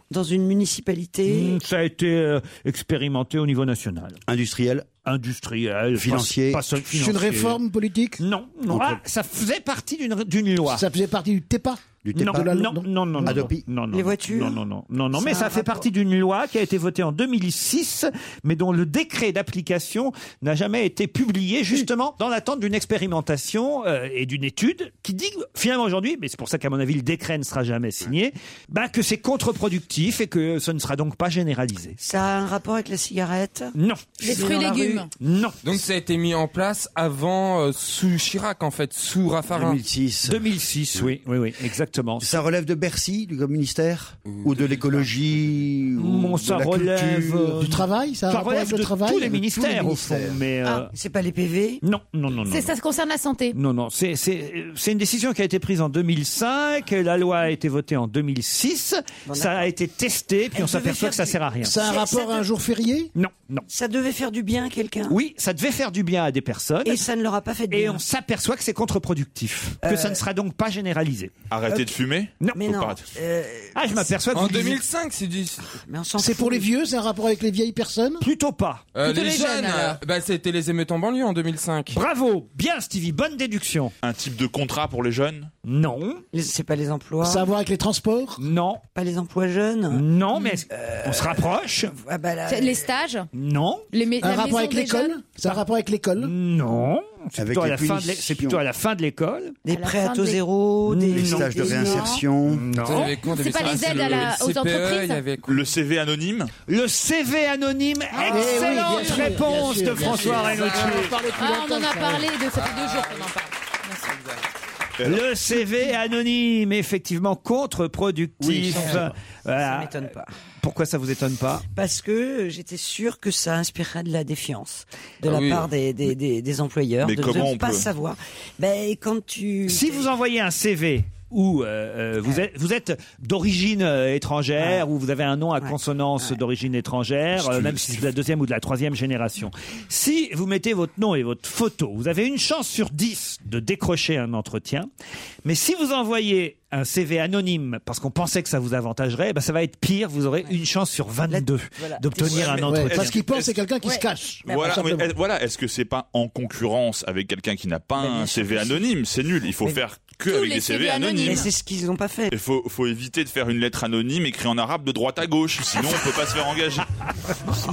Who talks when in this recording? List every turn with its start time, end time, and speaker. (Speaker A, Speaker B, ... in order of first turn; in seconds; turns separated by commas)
Speaker A: 0.1-1.6, Speaker B: 1.3-4.2, Speaker C: 4.3-4.9, Speaker B: 5.0-7.6, Speaker C: 6.0-6.7, Speaker D: 6.8-8.2, Speaker B: 8.2-10.8, Speaker C: 8.7-9.0, Speaker D: 10.7-13.5, Speaker C: 12.0-12.6, Speaker B: 12.2-32.0, Speaker C: 13.2-13.7, Speaker A: 13.9-14.6, Speaker A: 15.2-15.8, Speaker A: 32.0-35.0, Speaker B: 33.8-35.6, Speaker E: 34.2-35.1, Speaker F: 35.6-39.8, Speaker C: 39.5-41.1, Speaker B: 40.3-42.4, Speaker C: 42.2-47.7, Speaker F: 44.3-45.1, Speaker B: 46.0-50.9, Speaker D: 47.6-49.9, Speaker C: 49.5-50.4, Speaker A: 50.9-51.8, Speaker B: 51.8-52.8, Speaker E: 52.5-53.6, Speaker B: 53.5-61.8, Speaker A: 59.3-59.7, Speaker A: 60.5-62.5, Speaker D: 61.6-63.1, Speaker B: 63.1-63.7, Speaker A: 63.7-65.2, Speaker B: 65.1-67.0, Speaker A: 66.8-68.0, Speaker B: 67.7-71.3, Speaker A: 69.8-70.2, Speaker G: 71.5-73.0, Speaker A: 71.7-72.0, Speaker A: 72.5-74.1, Speaker B: 73.8-74.8, Speaker F: 74.3-75.7, Speaker A: 75.9-76.7, Speaker D: 76.2-78.2, Speaker B: 78.2-78.9, Speaker F: 79.0-82.0, Speaker E: 79.0-80.0, Speaker B: 81.9-83.9, Speaker G: 84.0-85.5, Speaker B: 85.7-86.2, Speaker A: 86.3-87.5, Speaker D: 87.2-88.4, Speaker B: 88.4-88.8, Speaker A: 89.0-92.9, Speaker B: 89.9-91.9, Speaker E: 92.5-93.3, Speaker B: 93.3-93.9, Speaker E: 93.9-95.2, Speaker D: 94.2-96.3, Speaker B: 96.2-99.6, Speaker C: 97.4-98.6, Speaker A: 99.7-102.2, Speaker E: 99.7-100.4, Speaker B: 100.9-101.9, Speaker C: 101.1-102.7, Speaker E: 101.8-102.2, Speaker B: 102.5-103.2, Speaker F: 102.8-105.7, Speaker E: 102.9-105.2, Speaker G: 105.5-106.5, Speaker B: 106.7-111.1, Speaker E: 108.1-109.3, Speaker D: 108.2-112.3, Speaker F: 110.0-111.2, Speaker E: 111.3-114.1, Speaker F: 112.5-113.3, Speaker G: 115.0-115.3, Speaker B: 115.0-119.9, Speaker D: 118.4-119.1, Speaker A: 118.7-120.3, Speaker B: 120.6-121.7, Speaker A: 121.7-130.1, Speaker F: 125.2-125.7, Speaker G: 127.0-127.9, Speaker B: 129.7-144.9, Speaker A: 134.6-134.9, Speaker A: 135.6-136.3, Speaker G: 137.6-137.8, Speaker B: 145.4-153.2, Speaker A: 151.3-152.7, Speaker G: 152.2-153.7, Speaker D: 152.7-155.1, Speaker G: 154.4-161.5, Speaker A: 154.5-154.9, Speaker A: 158.0-158.8, Speaker E: 160.2-161.5, Speaker A: 161.2-162.3, Speaker G: 162.3-166.9